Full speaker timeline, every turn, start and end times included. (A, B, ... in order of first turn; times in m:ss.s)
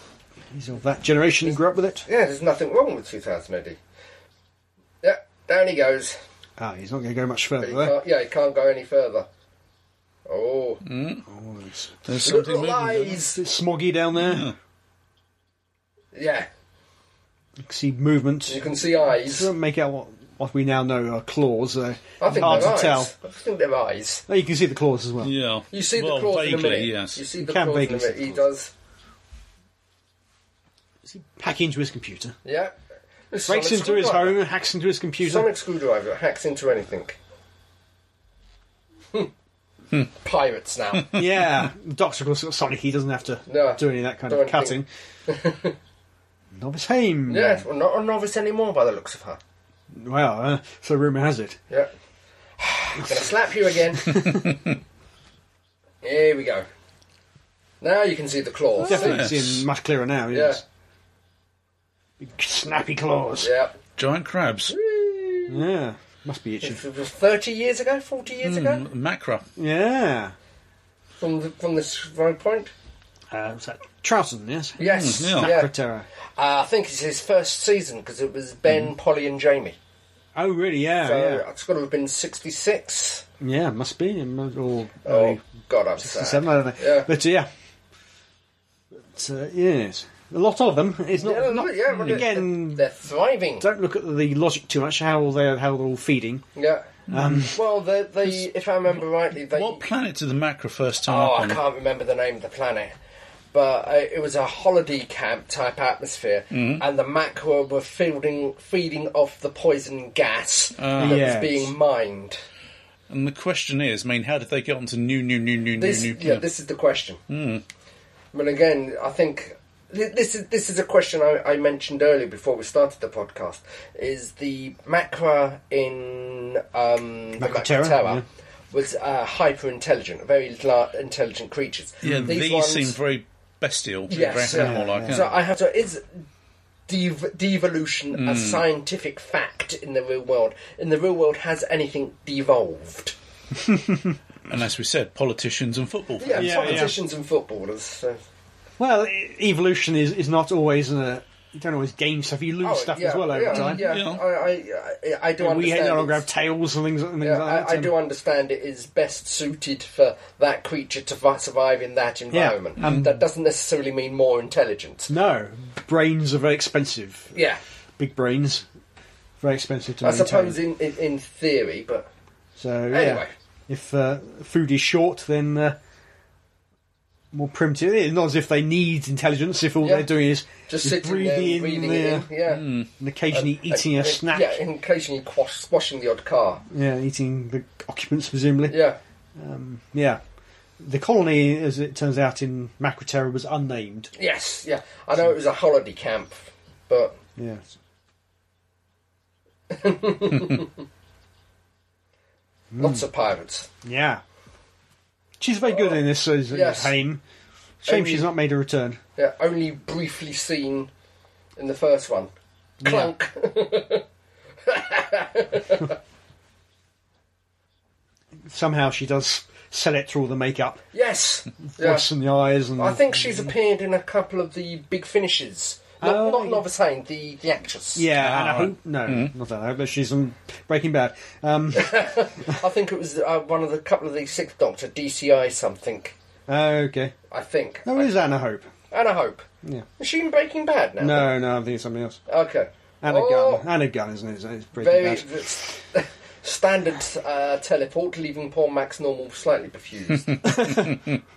0:00.5-0:02.0 A
0:02.0-0:03.8 B
0:05.0-0:06.2 B
0:06.6-0:08.0 A
0:07.6-0:09.3 B
0:10.3-0:10.8 B
0:10.8-0:11.2 C
0:11.3-0:12.1 A
0:12.1-0:13.2 C
0:12.2-0:13.4 B
0:13.3-0:14.5 A
0:14.2-0:14.5 C
0:16.1-0:16.5 B
0:17.6-0:23.1 A
0:18.5-0:19.5 B
0:22.2-0:24.2 B
0:24.3-0:25.3 A
0:25.2-0:27.2 C
0:25.7-0:28.7 B
0:27.4-0:28.5 A
0:31.0-0:32.4 A
0:32.4-0:32.8 B
0:33.3-0:34.4 B
0:33.5-0:35.5 A
0:35.2-0:37.2 B
0:40.1-0:41.1 B
0:41.1-0:44.8 A
0:43.5-0:45.7 B
0:46.5-0:47.6 A
0:47.3-0:49.4 B
0:49.9-0:51.6 A
0:52.6-0:54.2 B
0:53.0-0:53.3 A
0:54.0-0:54.4 A
0:54.1-0:54.7 C
0:56.0-0:56.7 B
0:57.8-0:59.3 B
0:58.8-1:00.6 A
0:58.8-0:59.6 C
1:00.3-1:00.6 B
1:02.2-1:03.5 A
1:03.4-1:03.7 B
1:04.0-1:04.7 C
1:04.7-1:05.6 B
1:05.5-1:06.8 A
1:06.6-1:08.9 B
1:08.4-1:09.4 C
1:09.6-1:10.3 A
1:11.2-1:12.7 B
1:13.3-1:16.1 A
1:14.8-1:15.7 B
1:14.8-1:15.5 C
1:16.4-1:19.8 B
1:20.3-1:21.4 A
1:21.0-1:23.2 B
1:23.4-1:25.4 A
1:25.0-1:27.1 B
1:26.0-1:27.5 A
1:29.1-1:32.9 A
1:31.2-1:33.6 B
1:33.6-1:36.4 A
1:36.6-1:36.9 B
1:37.1-1:37.5 C
1:37.1-1:37.6 A
1:37.5-1:39.8 B
1:39.5-1:41.6 C
1:41.0-1:42.9 B
1:43.5-1:52.4 B
1:46.5-1:46.8 C
1:50.8-1:51.4 C
1:51.0-1:51.7 A
1:53.1-1:56.4 C
1:55.8-1:57.2 B
1:57.3-1:57.6 C
1:58.3-2:13.0 B
2:07.4-2:08.2 A
2:12.0-2:15.3 C
2:14.1-2:16.2 B
2:14.5-2:15.3 A
2:16.9-2:23.1 B
2:18.1-2:18.6 C
2:23.6-2:24.2 A
2:24.5-2:26.9 C
2:26.2-2:28.2 B
2:26.3-2:27.0 A
2:28.8-2:33.9 A
2:32.6-2:36.2 B
2:33.5-2:34.2 C
2:35.4-2:37.9 A
2:37.2-2:45.1 B
2:42.3-2:43.2 A
2:42.8-2:43.0 C
2:45.1-2:47.3 A
2:47.3-2:47.6 B
2:48.0-2:48.6 A
2:49.4-2:50.6 A
2:50.0-2:52.1 B
2:52.6-2:55.8 A
2:52.9-2:53.3 B
2:57.3-3:02.3 A
2:59.8-3:00.1 B
3:00.7-3:02.7 B
3:02.5-3:02.9 C
3:03.0-3:04.6 A
3:03.3-3:06.6 B
3:06.7-3:08.8 A
3:08.7-3:09.0 B
3:09.4-3:10.2 A
3:10.8-3:14.1 A
3:14.1-3:17.2 B
3:17.4-3:17.7 A
3:19.7-3:20.7 B
3:22.7-3:23.0 A
3:22.8-3:23.7 B
3:23.8-3:24.2 A
3:25.4-3:27.2 A
3:26.5-3:26.9 B
3:27.8-3:29.0 A
3:27.8-3:28.3 B
3:29.2-3:30.9 B
3:31.6-3:32.3 B
3:32.8-3:33.1 A
3:32.8-3:34.0 B
3:34.6-3:36.0 B
3:38.4-3:40.8 A
3:40.9-3:42.0 B
3:41.7-3:43.5 A
3:42.8-3:48.1 B
3:46.0-3:46.6 A
3:47.9-3:52.6 A
3:48.2-3:49.3 C
3:51.7-3:56.1 B
3:56.5-3:57.1 A
3:57.3-3:58.2 B
3:57.8-3:58.7 A
3:58.9-3:59.5 B
4:00.0-4:01.3 B
4:01.0-4:02.2 A
4:02.3-4:03.6 B
4:03.0-4:05.7 A
4:04.8-4:10.9 B
4:10.4-4:11.0 A